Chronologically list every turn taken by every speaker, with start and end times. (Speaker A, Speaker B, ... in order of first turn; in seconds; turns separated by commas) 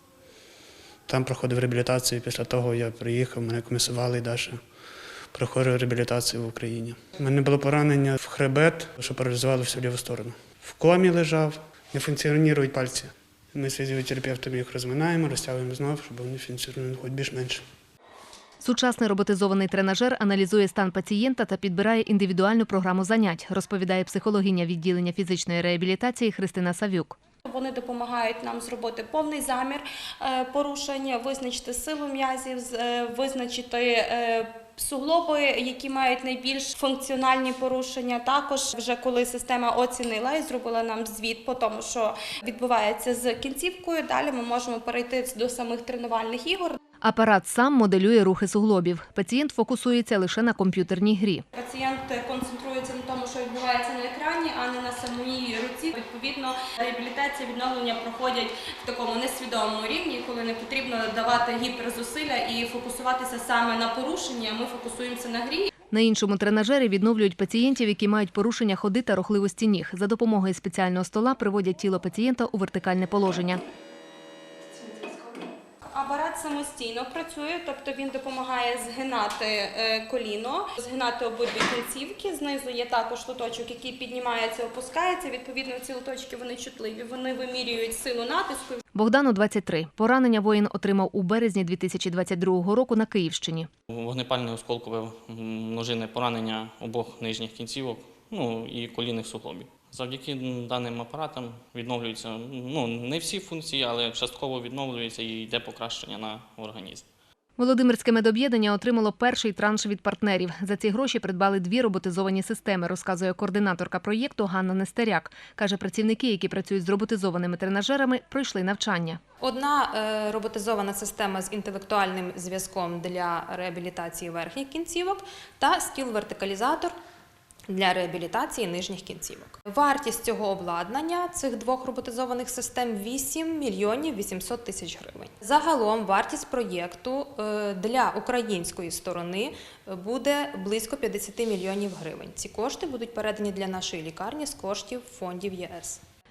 Speaker A: 1.1-4.6, Speaker A: 5.3-17.6, Speaker B: 18.6-27.1, Speaker C: 27.4-46.8, Speaker B: 47.0-51.4, Speaker C: 51.5-65.7, Speaker B: 65.9-73.6, Speaker C: 75.9-88.8, Speaker B: 88.9-93.7, Speaker D: 93.9-107.1, Speaker B: 107.6-119.2, Speaker E: 119.4-126.9, Speaker E: 127.7-146.0